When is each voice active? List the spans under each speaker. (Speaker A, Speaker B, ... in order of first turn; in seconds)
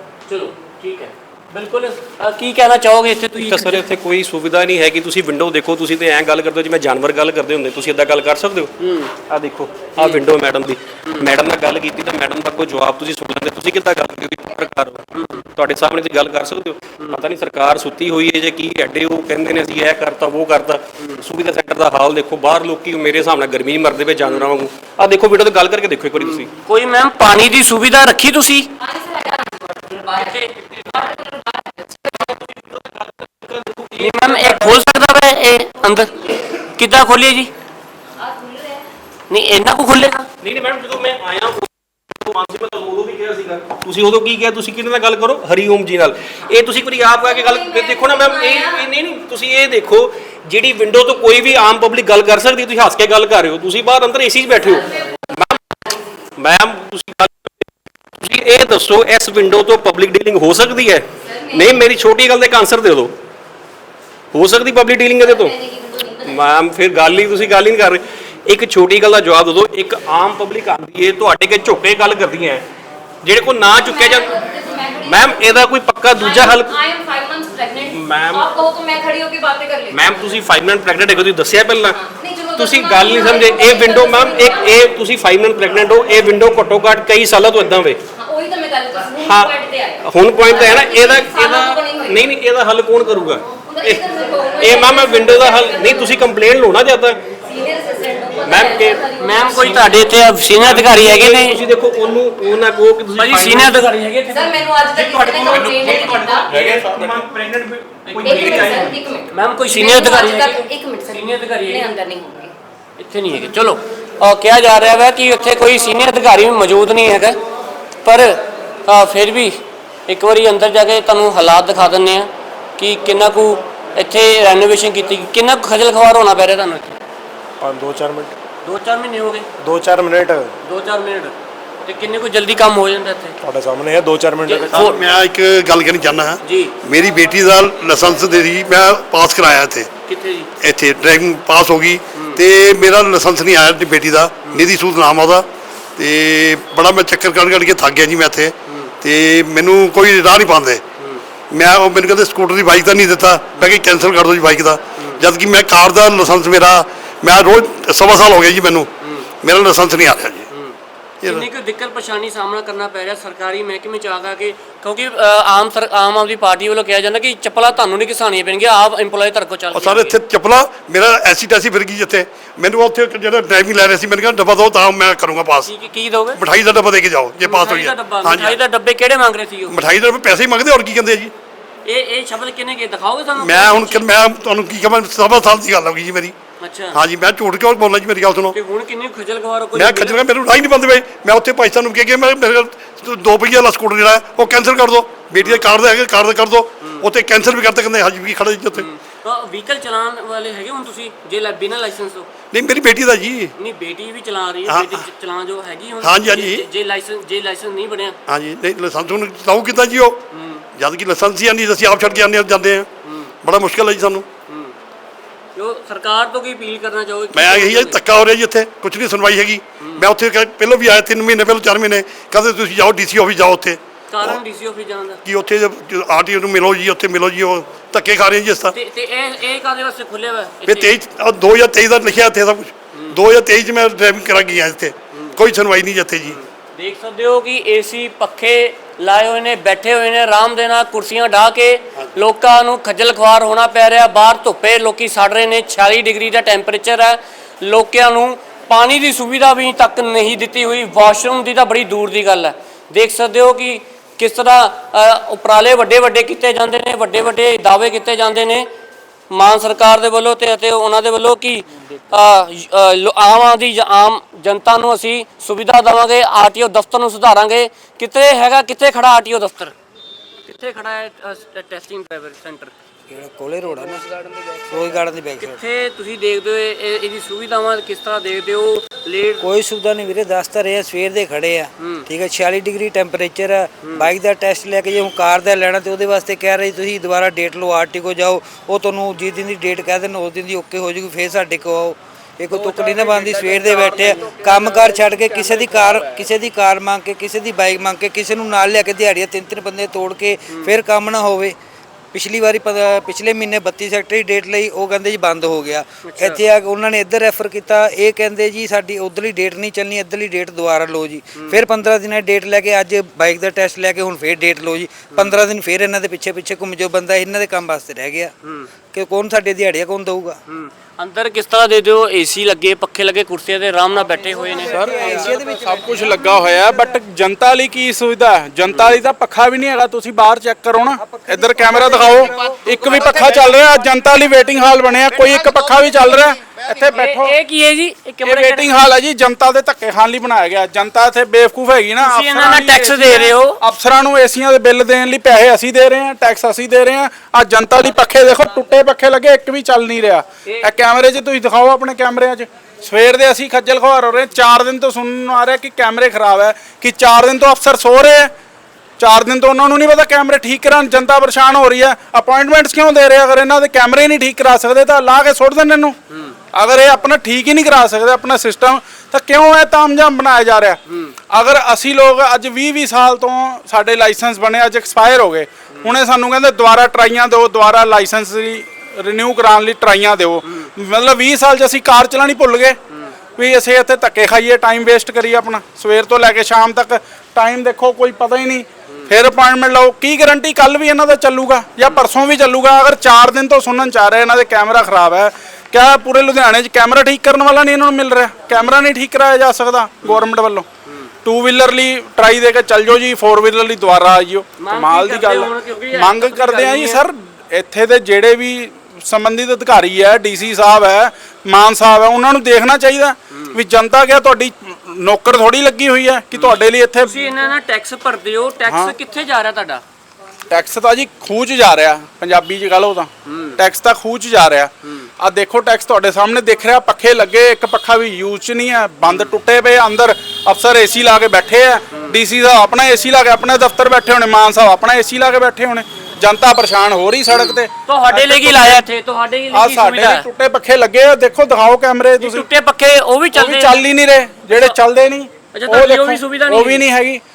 Speaker A: 0.3-3.9, 8.8-9.1, 10.0-10.2, 15.1-15.5, 26.2-28.7, 30.2-30.5, 34.0-36.2, 36.7-37.5, 39.3-40.3, 99.2-101.6, 103.2-104.5, 109.3-111.9, 113.0-117.4, 118.0-127.0, 128.6-129.5, 130.6-131.3, 131.9-133.4, 134.4-135.1, 136.4-136.8, 140.1-140.5, 142.2-142.4, 148.7-148.9, 155.0-155.2, 159.0-159.3, 160.5-170.2, 175.7-176.4, 177.4-179.8, 181.9-184.1, 186.6-187.0, 188.5-190.2, 195.4-195.7, 198.8-202.3, 203.6-208.2, 210.3-210.6, 213.0-213.3, 214.5-214.8, 215.6-218.0, 219.8-220.1, 224.1-225.2, 228.7-230.9, 232.9-233.2, 235.1-235.4, 236.2-258.7, 259.3-269.8, 270.4-272.7, 275.4-279.5, 281.8-282.1, 283.8-284.1, 306.0-306.4, 311.4-311.6, 315.1-315.4, 318.4-318.7, 320.5-324.9, 328.7-329.0, 336.9-338.8, 342.0-343.6, 350.5-350.7, 366.1-366.4, 370.9-371.2, 380.4-380.7, 400.0-400.3, 400.9-401.1, 404.6-407.1, 413.3-413.6, 416.3-419.8, 423.2-423.6, 424.8-425.1, 429.1-429.4, 431.9-432.2, 437.3-440.3, 442.2-443.8, 444.5-444.8, 445.5-446.9
Speaker B: 3.4-8.7, 9.3-26.5, 32.2-34.8, 40.4-55.6, 56.4-57.7, 58.2-63.1, 64.3-65.5, 66.2-72.7, 73.2-74.3, 75.0-76.7, 77.9-78.5, 79.9-82.0, 82.6-88.0, 89.2-89.5, 90.0-94.0, 94.6-97.2, 98.4-99.0, 100.6-103.9, 104.9-109.0
Speaker C: 28.8-32.2, 38.2-38.9, 47.2-48.9, 54.5-56.2, 61.2-61.8, 65.2-66.5, 73.7-75.6, 76.2-80.0, 81.9-84.9, 88.2-92.3, 93.6-96.2, 97.5-100.1, 104.3-106.8, 108.2-112.5
Speaker D: 127.6-128.3, 129.6-130.5, 133.4-134.9
Speaker E: 134.7-139.9, 140.6-145.5, 146.0-150.8, 151.5-158.9, 159.4-160.5, 169.7-175.7, 176.3-178.6, 179.7-181.3, 183.4-186.4, 186.9-188.6, 189.8-198.9, 202.5-203.5, 204.7-205.0, 206.0-206.7, 208.3-210.2, 210.8-212.9, 213.4-214.3, 217.3-224.4, 225.2-228.8, 230.7-236.4
Speaker F: 273.1-275.6, 279.4-301.6, 302.1-318.3, 318.9-320.4, 324.4-326.4, 332.3-332.6
Speaker G: 324.7-337.4, 338.2-358.3, 359.0-366.0, 366.5-382.8, 383.4-400.7, 401.2-417.1, 418.7-418.9, 420.5-438.9, 439.5-442.5, 443.3-447.2